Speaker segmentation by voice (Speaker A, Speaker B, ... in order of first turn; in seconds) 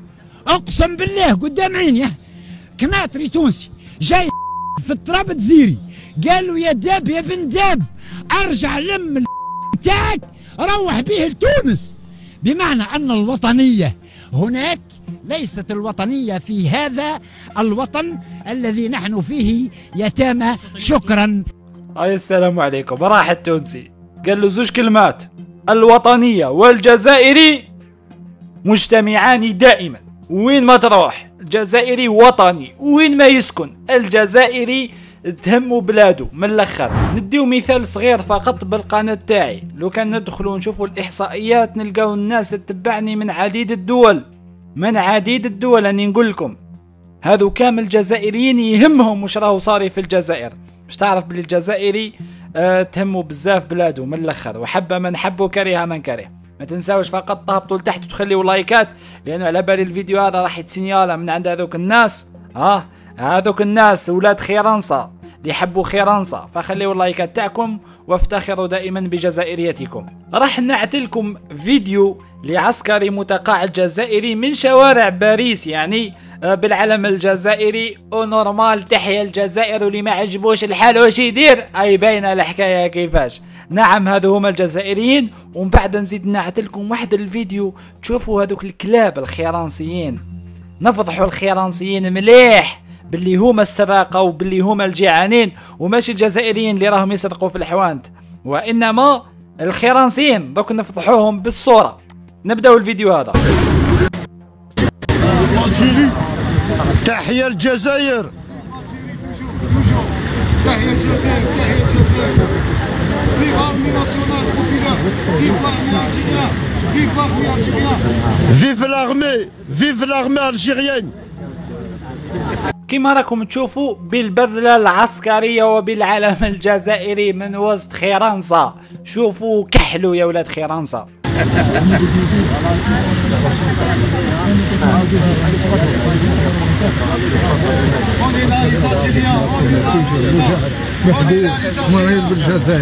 Speaker A: 0.5-2.1, 2.8-21.4
Speaker B: 21.9-27.7, 28.6-46.6, 47.2-90.2, 90.8-103.4, 122.9-131.1
Speaker C: 105.5-106.1, 107.0-108.3, 118.5-121.1
Speaker D: 110.6-112.5, 113.4-118.0, 138.2-142.6